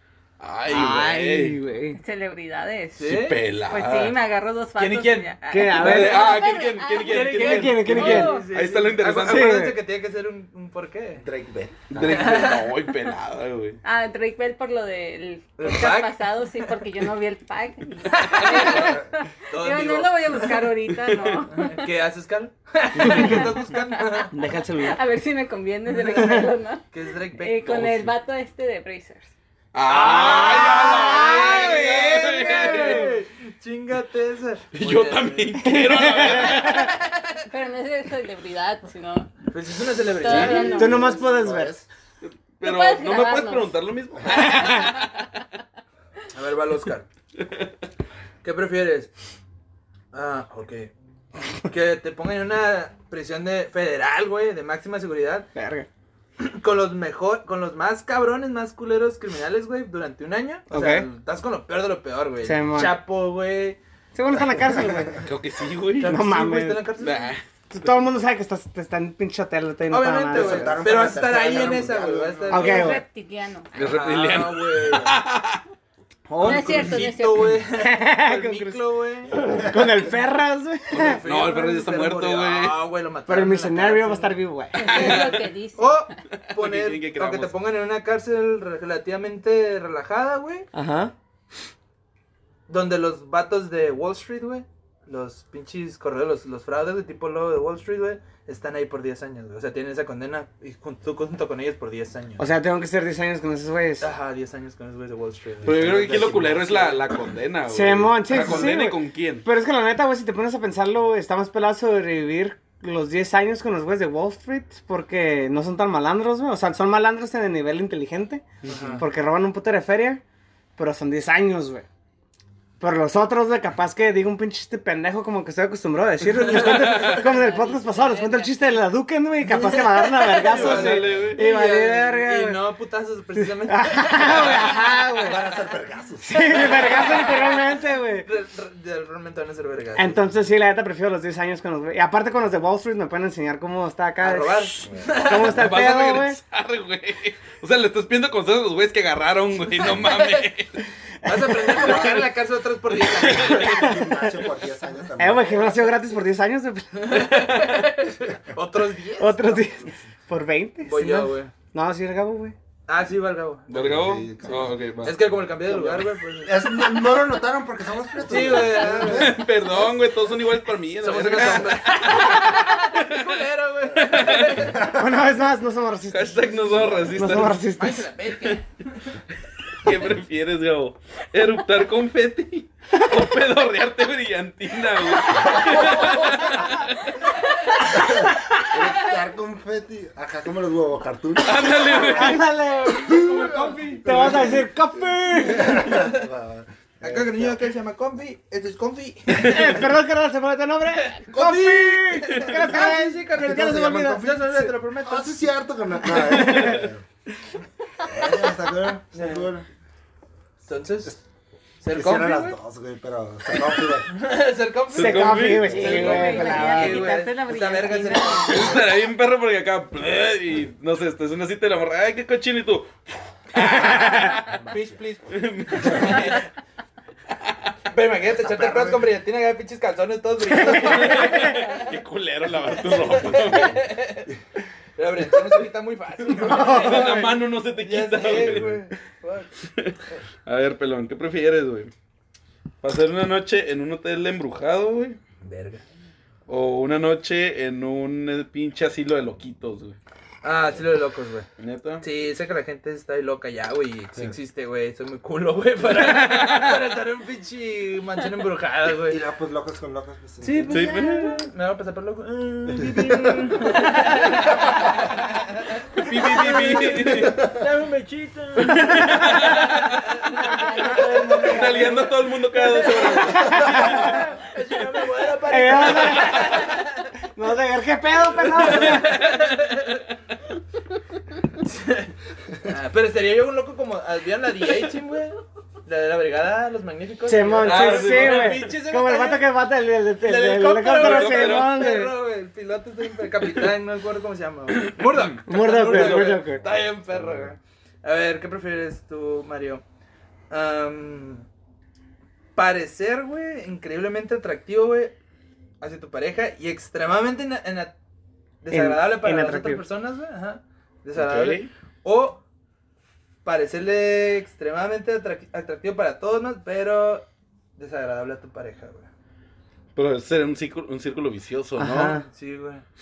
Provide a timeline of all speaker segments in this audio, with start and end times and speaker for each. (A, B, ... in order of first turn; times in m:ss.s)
0:00.4-0:01.6 A
0:00.7-0:02.0 B
0:01.9-0:08.5 C
0:03.0-0:03.4 D
0:03.0-0:04.2 A
0:04.8-0:05.4 D
0:05.5-0:06.4 B
0:05.7-0:09.7 A
0:07.0-0:11.3 D
0:07.3-0:08.4 B
0:09.2-0:09.8 B
0:11.2-0:11.9 E
0:11.9-0:13.8 A
0:11.9-0:12.7 D
0:12.0-0:12.7 C
0:13.8-0:21.9 C
0:15.6-0:16.2 D
0:18.1-0:20.7 D
0:18.7-0:19.1 E
0:21.1-0:21.4 A
0:21.5-0:24.3 D
0:23.0-0:29.3 C
0:23.1-0:23.3 A
0:24.3-0:25.0 B
0:26.1-0:26.4 B
0:26.9-0:28.1 D
0:29.7-0:33.1 A
0:29.9-0:37.4 D
0:30.1-0:32.3 B
0:30.9-0:32.9 C
0:34.7-0:36.9 A
0:35.6-0:36.9 B
0:37.5-0:39.3 C
0:39.5-0:40.9 D
0:40.1-0:41.2 C
0:40.3-0:40.7 A
0:40.4-0:41.8 E
0:40.7-0:41.7 B
0:42.2-0:45.3 A
0:42.6-0:43.8 C
0:44.3-0:45.1 C
0:46.3-0:47.1 D
0:47.4-0:47.7 A
0:48.4-0:49.1 D
0:50.1-0:50.9 D
0:51.6-0:55.5 D
0:55.6-0:55.9 B
0:56.4-1:03.8 D
1:00.7-1:01.1 B
1:02.4-1:03.0 B
1:04.1-1:05.2 B
1:05.2-1:06.3 A
1:06.0-1:07.3 D
1:06.0-1:06.9 B
1:07.0-1:07.4 A
1:07.7-1:11.0 B
1:09.9-1:13.0 D
1:10.3-1:12.9 E
1:12.5-1:13.0 B
1:12.6-1:13.7 C
1:13.7-1:15.6 A
1:13.8-1:15.2 D
1:16.3-1:16.9 B
1:16.4-1:19.4 D
1:16.4-1:17.6 C
1:17.7-1:18.8 B
1:19.3-1:21.2 B
1:20.9-1:22.8 A
1:20.9-1:30.7 D
1:23.3-1:25.2 B
1:24.8-1:26.1 C
1:24.8-1:25.4 A
1:26.3-1:27.6 A
1:30.7-1:31.1 B
1:32.7-1:42.5 D
1:42.4-1:44.1 B
1:44.0-1:47.0 D
1:45.6-1:49.5 A
1:45.6-1:47.1 E
1:47.7-1:58.5 B
1:58.6-1:59.0 D
1:58.7-1:59.0 A
1:59.0-2:00.2 B
2:00.8-2:01.9 B
2:02.8-2:12.6 B
2:06.4-2:07.2 A
2:06.8-2:08.7 C
2:09.5-2:15.4 D
2:10.4-2:11.4 A
2:13.4-2:15.5 B
2:15.2-2:16.8 E
2:16.2-2:18.3 B
2:16.4-2:20.2 D
2:20.0-2:26.4 B
2:24.2-2:25.7 D
2:24.8-2:25.2 E
2:25.2-2:30.8 A
2:29.8-2:30.5 D
2:31.2-2:33.9 D
2:31.4-2:32.1 B
2:33.2-2:34.0 A
2:33.3-2:35.9 E
2:35.2-2:37.3 B
2:37.0-2:39.9 D
2:37.3-2:38.0 A
2:39.2-2:42.6 B
2:40.8-2:41.5 D
2:42.9-2:47.0 D
2:43.7-2:45.2 A
2:43.7-2:44.7 E
2:45.6-2:49.4 E
2:48.3-2:49.4 D
2:48.9-2:53.4 A
2:51.0-2:55.0 D
2:54.0-2:54.8 A
2:54.6-2:55.0 E
2:54.8-2:58.0 B
2:56.1-2:57.6 A
2:56.9-2:57.2 E
2:57.8-2:59.2 D
2:59.8-3:07.2 A
3:07.9-3:12.4 E
3:11.4-3:12.5 A
3:12.0-3:15.9 B
3:13.0-3:14.7 D
3:13.0-3:14.7 E
3:15.3-3:17.6 E
3:15.9-3:16.2 D
3:17.0-3:19.9 D
3:19.3-3:24.4 B
3:21.2-3:25.5 D
3:23.4-3:27.0 E
3:26.3-3:26.8 B
3:26.5-3:26.9 A
3:28.0-3:29.7 E
3:29.1-3:29.5 D
3:30.6-3:31.2 D
3:31.8-3:32.6 D
3:31.9-3:34.2 E
3:34.0-3:39.0 D
3:34.9-3:35.9 A
3:34.9-3:37.3 B
3:35.7-3:38.8 C
3:38.5-3:42.9 A
3:43.5-3:44.6 A
3:43.8-3:44.2 B
3:44.5-3:45.0 E
3:44.7-3:46.4 D
3:45.3-3:46.4 A
3:47.3-3:47.7 A
3:47.9-3:51.9 D
3:48.3-3:49.1 E
3:50.6-3:53.8 A
3:52.8-3:54.3 D
3:55.0-3:59.6 D
3:56.4-3:57.3 B
3:56.5-3:58.8 A
3:59.8-4:01.9 A
4:02.8-4:05.2 A
4:05.4-4:05.8 D
4:06.5-4:10.0 A
4:10.4-4:11.5 D
4:11.6-4:12.1 A
4:12.0-4:19.2 D
4:15.9-4:16.8 A
4:19.1-4:20.9 E
4:20.4-4:37.1 D
4:20.7-4:21.4 A
4:22.8-4:23.5 E
4:26.0-4:27.4 A
4:28.7-4:30.0 A
4:30.3-4:32.0 C
4:31.4-4:34.2 A
4:33.5-4:34.3 B
4:35.4-4:36.8 B
4:37.4-4:39.2 B
4:38.5-4:40.1 D
4:41.6-4:42.1 D
4:42.6-4:49.5 D
4:47.3-4:52.1 B
4:47.6-4:48.7 A
4:50.2-4:59.8 D
4:50.9-4:51.9 A
4:54.8-4:56.4 A
4:55.5-4:56.6 B
4:56.6-4:57.5 E
5:00.5-5:01.5 D
5:02.6-5:05.2 D
5:05.8-5:08.0 D
5:08.6-5:12.4 D
5:08.7-5:09.8 B
5:11.2-5:11.7 A
5:13.4-5:19.1 D
5:20.0-5:22.2 A
5:21.8-5:22.2 B
5:21.9-5:22.9 D